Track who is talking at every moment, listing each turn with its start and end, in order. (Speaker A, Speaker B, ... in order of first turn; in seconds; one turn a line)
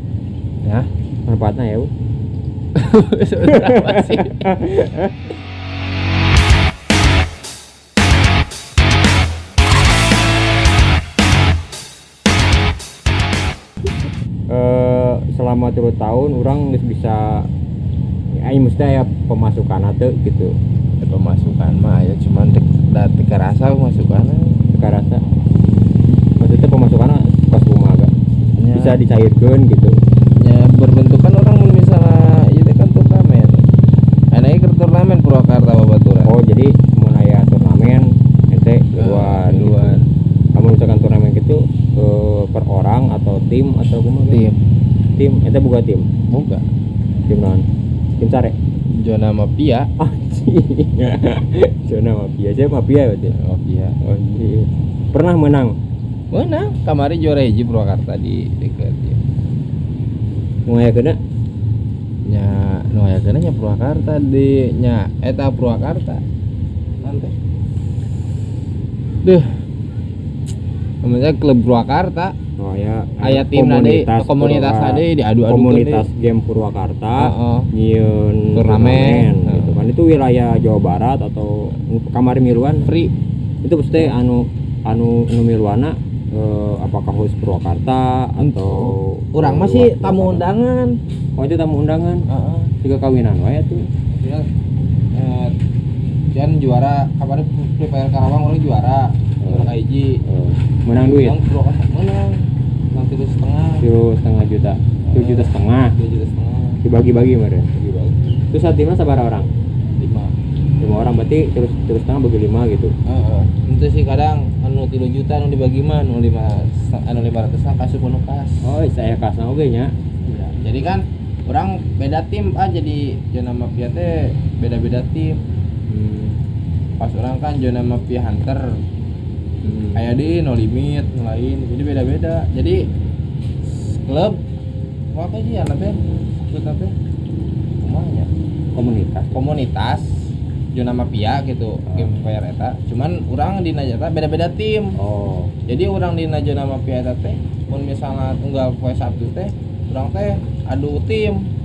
Speaker A: 1.3-1.9
Speaker B: 2.7-4.5
Speaker A: 3.5-5.3
Speaker A: 14.5-17.5
Speaker A: 18.3-20.5
Speaker B: 21.0-24.6
Speaker A: 24.7-25.2
Speaker A: 26.4-28.1
Speaker B: 28.6-29.0
Speaker A: 28.7-30.0
Speaker B: 30.4-33.7
Speaker B: 34.3-36.3
Speaker A: 36.2-40.0
Speaker B: 39.0-40.0
Speaker A: 40.5-44.5
Speaker B: 44.2-44.6
Speaker A: 45.1-46.1
Speaker B: 46.3-46.6
Speaker A: 47.3-48.5
Speaker B: 48.9-49.9
Speaker A: 50.0-53.3
Speaker B: 53.3-54.0
Speaker A: 54.0-55.7
Speaker B: 56.3-59.2
Speaker A: 60.7-61.2
Speaker B: 62.2-66.2
Speaker B: 67.0-67.3
Speaker B: 69.2-69.6
Speaker B: 71.0-72.3
Speaker A: 72.6-82.9
Speaker B: 73.2-76.1
Speaker B: 77.2-77.7
Speaker B: 78.5-79.8
Speaker B: 82.8-83.1
Speaker A: 83.6-90.5
Speaker B: 88.4-91.0
Speaker A: 91.4-92.2
Speaker B: 92.3-92.7
Speaker A: 92.8-93.9
Speaker B: 94.1-94.5
Speaker B: 95.1-95.5
Speaker B: 96.3-100.2
Speaker A: 99.4-101.4
Speaker B: 101.0-103.8
Speaker A: 103.8-105.9
Speaker B: 105.0-106.8
Speaker A: 106.8-107.7
Speaker B: 107.8-108.2
Speaker A: 108.5-109.5
Speaker B: 110.0-110.3
Speaker A: 110.8-112.9
Speaker B: 113.0-118.7
Speaker A: 118.6-119.9
Speaker B: 120.2-125.4
Speaker A: 125.9-126.3
Speaker B: 127.0-128.7
Speaker A: 129.6-130.0
Speaker B: 129.9-132.9
Speaker B: 133.7-134.4
Speaker B: 135.1-136.9
Speaker B: 137.8-138.3
Speaker A: 138.7-139.4
Speaker B: 139.3-145.0
Speaker A: 141.9-142.2
Speaker A: 145.0-145.5
Speaker B: 145.7-151.5